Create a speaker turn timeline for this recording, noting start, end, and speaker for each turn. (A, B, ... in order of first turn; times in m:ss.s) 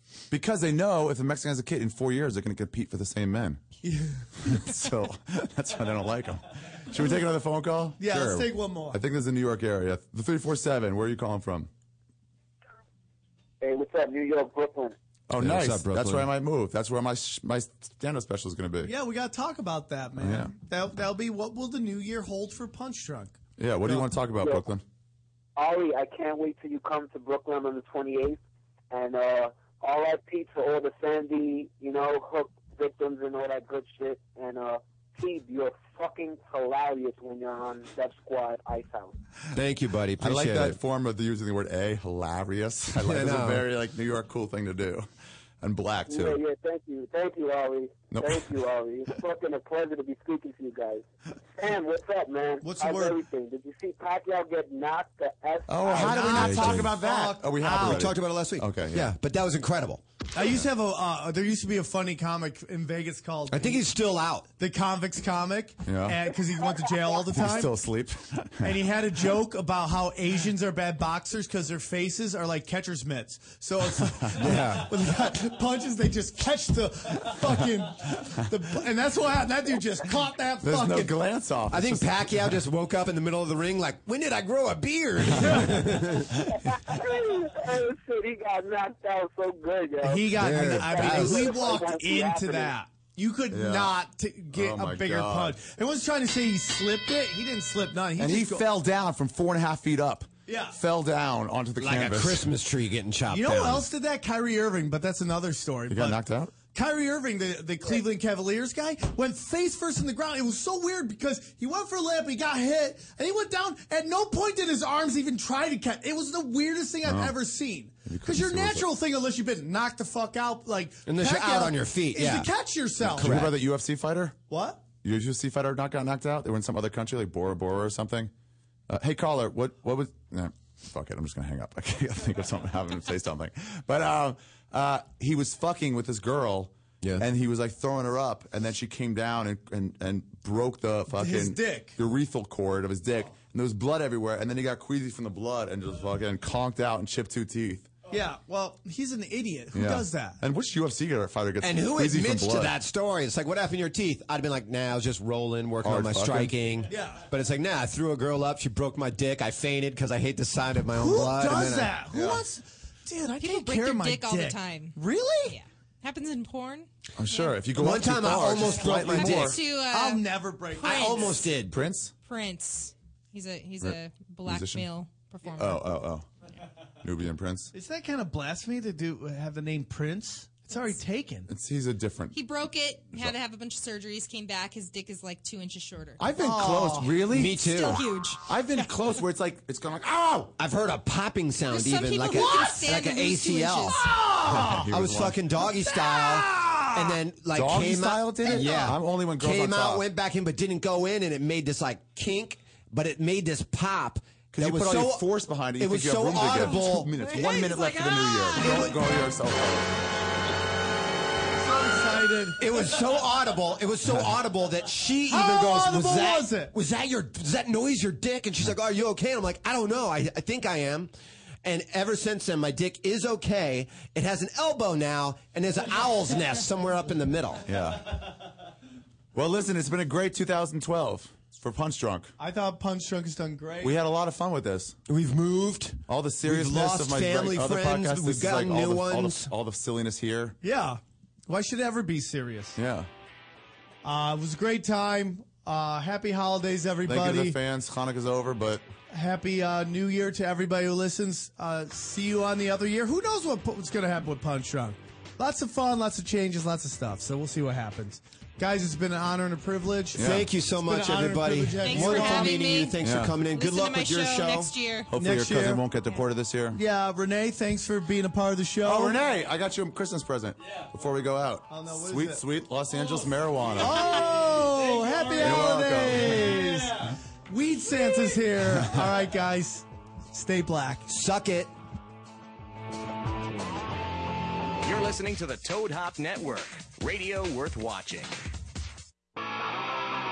0:00.3-0:03.6 A
0:03.8-0:04.2 B
0:04.4-0:11.7 A
0:08.0-0:09.0 B
0:13.6-0:15.0 C
0:15.3-0:18.9 A
0:15.4-0:16.3 D
0:18.8-0:24.1 B
0:20.2-0:20.5 A
0:23.6-0:24.8 A
0:25.6-0:28.4 C
0:28.9-0:39.2 C
0:39.5-0:40.8 D
0:40.2-0:45.1 A
0:43.0-0:43.7 D
0:45.6-0:46.4 A
0:46.1-0:51.0 C
0:48.1-0:48.5 A
0:51.6-0:56.3 C
0:52.6-0:53.2 B
0:55.7-0:59.2 A
0:55.9-0:58.1 B
0:56.4-0:56.9 D
0:57.6-1:00.0 D
1:00.3-1:03.8 B
1:03.5-1:04.5 D
1:04.6-1:07.7 B
1:05.9-1:06.2 A
1:07.3-1:09.0 A
1:08.6-1:21.2 B
1:14.4-1:14.9 D
1:20.6-1:22.6 A
1:21.7-1:26.4 D
1:25.4-1:25.8 A
1:26.5-1:32.7 C
1:30.0-1:38.6 B
1:30.4-1:31.6 D
1:33.5-1:34.0 A
1:34.5-1:35.6 A
1:38.2-1:42.5 A
1:40.5-1:40.8 B
1:41.8-1:43.9 D
1:43.3-2:03.5 B
1:45.9-1:46.5 A
1:57.0-1:57.4 A
1:58.1-1:58.9 A
2:01.1-2:02.5 D
2:03.0-2:04.4 A
2:03.1-2:03.5 D
2:04.5-2:04.8 B
2:05.0-2:08.3 A
2:08.9-2:27.9 A
2:21.1-2:22.0 B
2:28.1-2:30.4 B
2:29.7-2:32.8 A
2:31.6-2:41.9 D
2:35.8-2:36.6 A
2:36.9-2:37.2 B
2:40.9-2:45.6 B
2:42.1-2:42.4 A
2:43.4-2:47.6 E
2:47.2-2:49.6 A
2:47.8-2:49.6 D
2:49.0-2:51.4 E
2:49.7-2:51.4 B
2:50.8-2:51.8 D
2:51.7-2:52.1 A
2:52.2-2:55.9 E
2:53.8-2:54.9 A
2:55.5-2:56.3 A
2:57.0-2:57.7 A
2:57.7-3:01.5 B
3:01.5-3:02.4 A
3:02.3-3:06.3 E
3:06.2-3:07.6 A
3:06.3-3:07.1 B
3:07.3-3:08.1 D
3:07.4-3:08.4 E
3:08.5-3:10.5 A
3:10.6-3:14.0 D
3:11.7-3:14.1 E
3:12.4-3:12.8 B
3:13.9-3:14.9 B
3:14.4-3:15.4 A
3:14.9-3:27.1 D
3:15.6-3:17.2 B
3:17.5-3:20.1 A
3:24.5-3:29.9 A
3:26.5-3:29.0 B
3:31.6-3:32.6 B
3:32.6-3:41.1 D
3:35.3-3:36.7 B
3:41.6-3:47.7 D
3:47.6-3:48.4 A
3:49.3-3:52.3 A
3:52.4-3:54.0 B
3:53.8-3:55.0 A
3:55.1-3:59.5 D
3:56.1-4:00.6 A
4:00.6-4:02.8 B
4:02.8-4:03.1 A
4:04.0-4:07.6 B
4:07.0-4:08.8 A
4:09.1-4:22.6 B
4:20.2-4:20.5 A
4:20.2-4:24.7 D
4:21.8-4:25.1 E
4:23.0-4:23.4 A
4:25.1-4:26.8 A
4:25.2-4:25.8 B
4:26.7-4:29.2 B
4:28.8-4:34.2 A
4:31.7-4:32.4 B
4:33.8-4:41.1 B
4:35.3-4:36.6 A
4:41.1-4:41.7 D
4:44.8-4:48.3 F